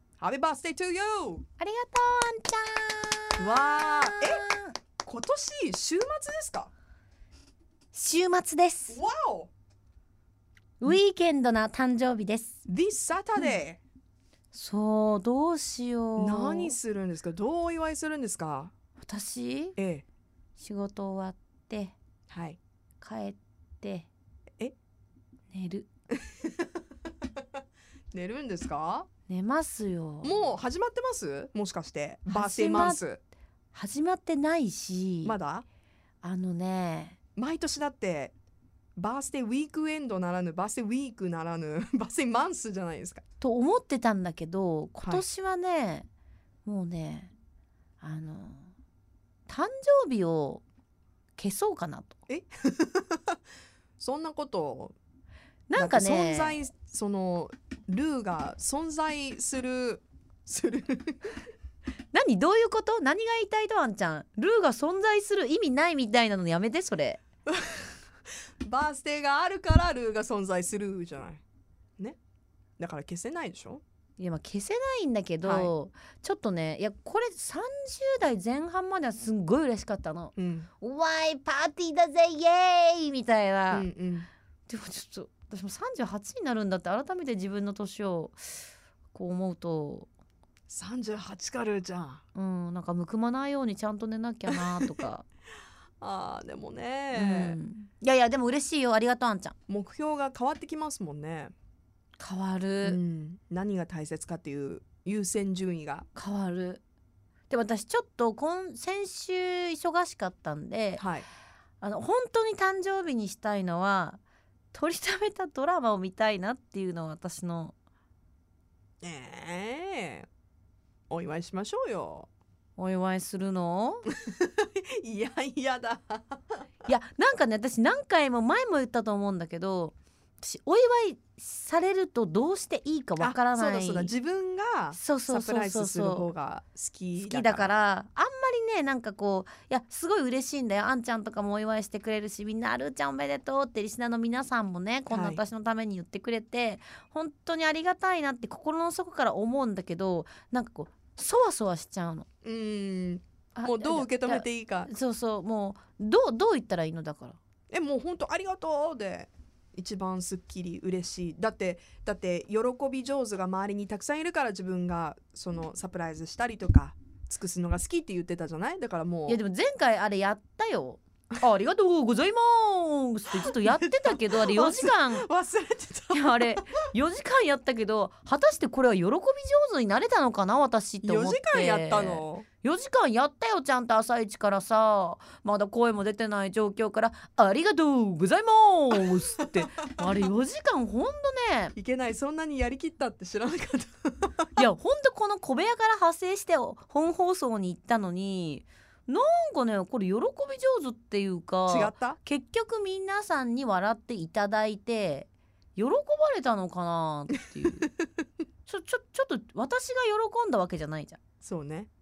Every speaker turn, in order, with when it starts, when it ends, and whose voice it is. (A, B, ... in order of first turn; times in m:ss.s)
0:00.2-0:01.4 A
0:01.6-0:04.7 B
0:03.4-0:04.5 A
0:05.0-0:06.7 A
0:07.9-0:09.0 B
0:08.9-0:09.5 A
0:10.8-0:12.6 B
0:12.6-0:13.8 A
0:14.5-0:16.8 B
0:16.2-0:18.7 A
0:19.0-0:19.8 B
0:19.8-0:20.0 A
0:20.6-0:21.9 B
0:22.3-0:22.6 A
0:23.0-0:24.1 B
0:25.5-0:25.9 B
0:26.3-0:26.6 A
0:28.1-0:29.1 A
0:29.3-0:30.5 B
0:30.2-0:33.2 A
0:32.3-0:33.0 B
0:33.7-0:35.4 B
0:35.2-0:35.6 A
0:36.2-0:37.2 B
0:37.4-0:38.3 A
0:39.0-0:43.2 A
0:43.4-0:46.1 B
0:46.6-0:47.3 B
0:48.0-0:48.7 B
0:49.5-0:50.6 B
0:51.4-0:52.2 B
0:52.3-0:53.4 A
0:54.0-0:54.9 A
0:55.7-0:56.6 B
0:55.7-1:01.4 A
1:02.1-1:07.2 B
1:07.5-1:07.8 A
1:08.6-1:11.4 A
1:12.8-1:13.8 A
1:14.2-1:23.9 B
1:15.4-1:15.7 A
1:20.4-1:20.7 A
1:23.7-1:24.3 A
1:24.7-1:30.1 B
1:30.7-1:32.2 A
1:32.3-1:35.2 B
1:34.5-1:34.9 A
1:36.0-1:37.6 A
1:37.1-1:39.6 B
1:39.7-1:41.5 A
1:42.2-1:43.0 B
1:42.8-1:46.1 A
1:46.2-1:46.8 B
1:47.5-1:51.0 B
1:51.0-1:51.2 A
1:51.8-1:54.2 B
1:54.7-1:57.7 B
1:59.0-2:00.3 A
2:01.1-2:02.3 A
2:02.8-2:04.0 B
2:04.2-2:06.6 A
2:06.8-2:14.1 B
2:13.2-2:17.7 A
2:14.9-2:16.3 B
2:17.2-2:32.3 B
2:25.1-2:25.4 A
2:32.4-2:34.9 A
2:33.6-2:37.4 B
2:37.7-2:49.4 A
2:49.3-2:55.3 B
2:53.4-2:56.9 A
2:56.1-3:11.7 B
3:01.0-3:02.4 A
3:11.7-3:14.5 A
3:14.6-3:27.9 B
3:21.7-3:22.2 A
3:28.6-3:31.2 B
3:31.4-3:31.9 A